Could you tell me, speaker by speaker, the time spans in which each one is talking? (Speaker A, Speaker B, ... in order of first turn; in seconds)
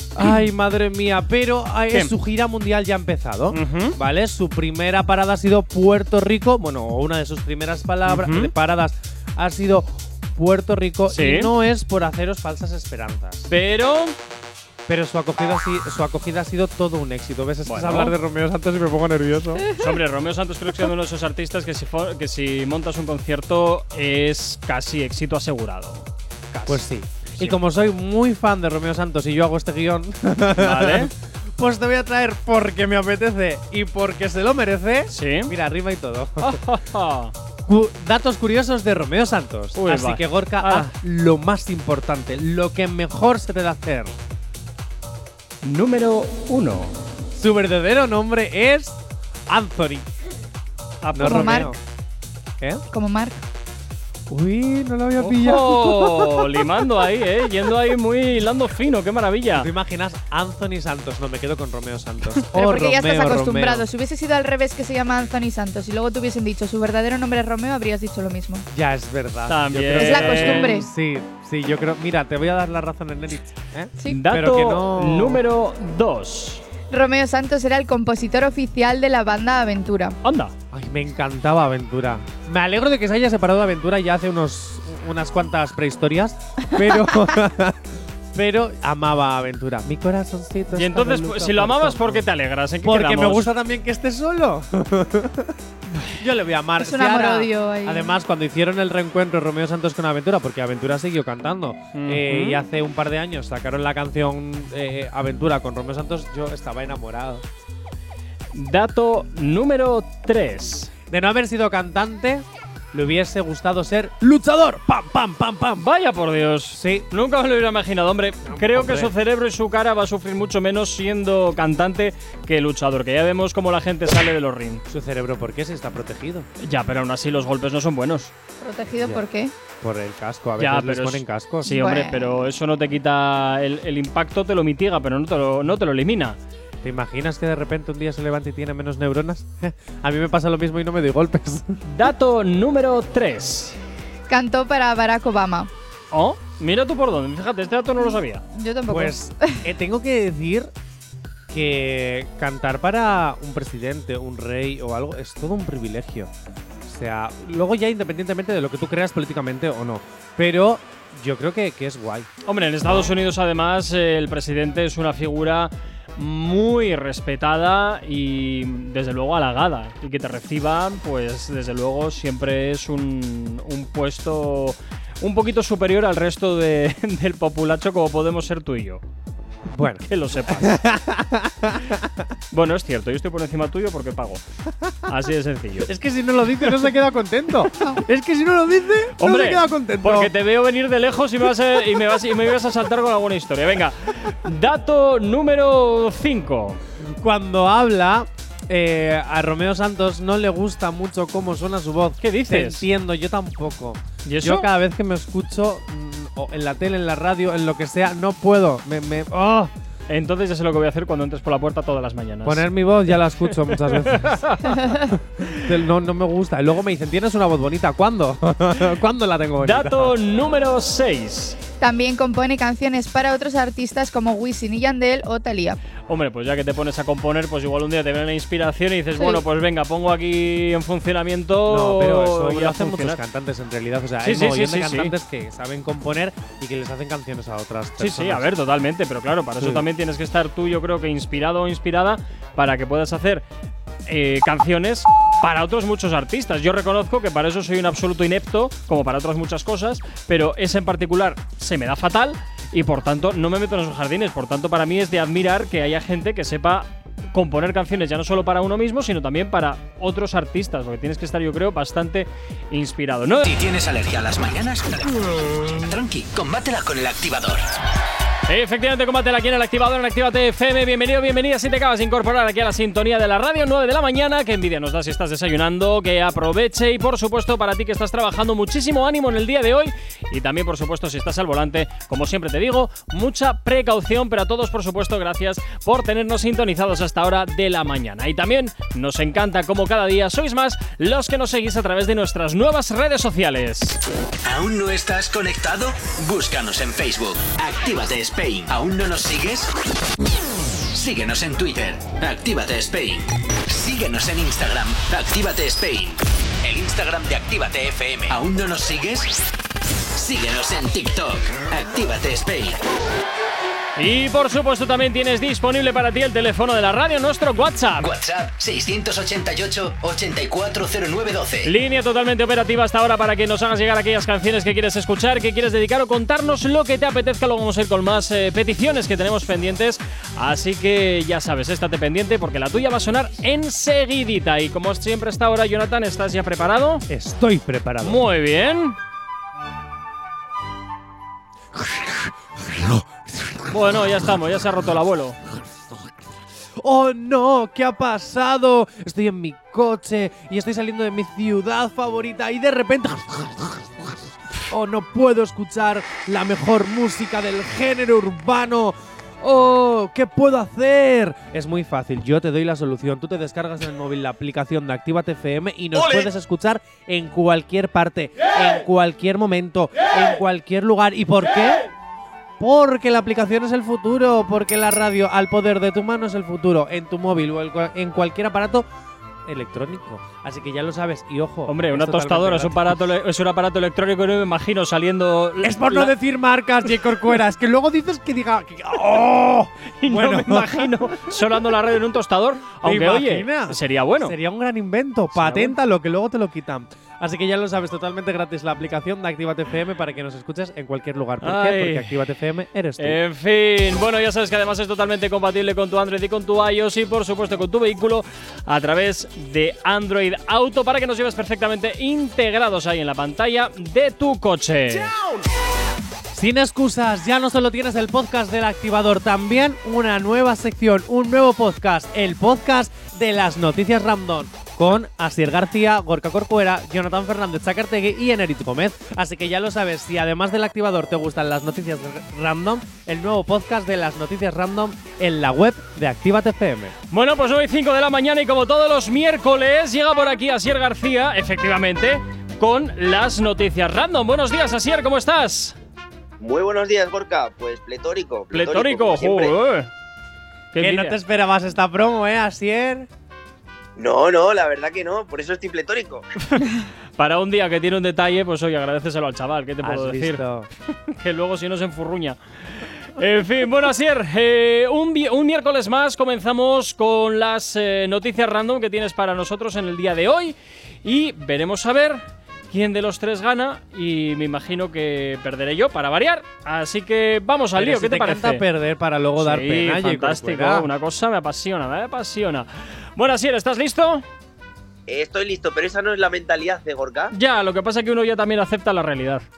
Speaker A: 0.1-13.5, 14.9-19.7, 26.7-36.6, 37.7-44.1, 47.3-50.1, 51.1-51.8, 54.3-56.5, 59.5-63.9, 68.7-75.4, 80.7-92.3, 92.8-95.6, 96.1-107.5, 111.1-115.8, 116.7-117.1, 118.4-119.1, 124.9-126.5, 129.0-129.2, 129.8-131.8, 136.8-141.8, 148.9-150.7, 151.5-156.3, 156.9-162.3, 179.7-182.3, 185.8-190.3, 197.0-209.7, 212.4-214.5, 215.1-220.2, 231.7-238.5, 239.6-239.9, 337.1-338.2, 341.8-343.6, 346.8-354.1, 354.7-371.9, 372.6-378.9, 379.5-383.0, 385.6-391.4, 392.8-403.2, 416.3-436.9, 450.8-453.1, 459.8-460.7, 477.8-480.9
Speaker B: 3.5-4.0, 8.1-8.5, 11.1-11.5, 13.5-14.2, 17.7-18.2, 19.8-26.8, 30.6-31.1, 35.1-35.5, 36.4-37.3, 39.8-40.9, 45.6-47.0, 51.0-51.7, 55.2-59.7, 69.5-70.8, 74.1-76.6, 80.2-80.5, 90.7-93.5, 101.9-102.6, 108.5-110.9, 115.8-124.8, 126.6-128.3, 130.6-136.4, 141.8-143.8, 146.1-148.4, 162.5-179.0, 180.1-180.8, 182.5-184.4, 185.1-185.9, 189.2-196.8, 202.2-202.9, 204.2-204.7, 210.1-214.8, 219.6-221.6, 226.1-233.2, 234.2-235.1, 238.0-243.4, 244.1-263.5, 268.5-294.0, 314.0-318.1, 321.6-337.1, 338.0-339.0, 343.7-345.4, 381.7-386.1, 390.0-394.4, 395.3-395.8, 401.4-402.1, 403.0-415.1, 437.1-445.8, 448.5-449.9, 450.7-451.2, 456.5-460.4, 461.1-478.6, 479.4-484.2, 487.3-489.4
Speaker C: 51.2-51.7, 52.9-53.4, 62.5-68.7, 70.0-70.9, 76.9-80.2, 96.8-98.2, 128.6-129.5, 131.7-132.3, 144.3-145.7, 148.5-149.6, 214.8-215.1, 221.8-225.8, 229.2-229.4
Speaker D: 263.4-267.7, 294.4-299.7, 300.9-309.4, 310.1-312.8, 318.0-321.7
Speaker E: 446.4-449.6, 454.0-456.3, 485.1-487.3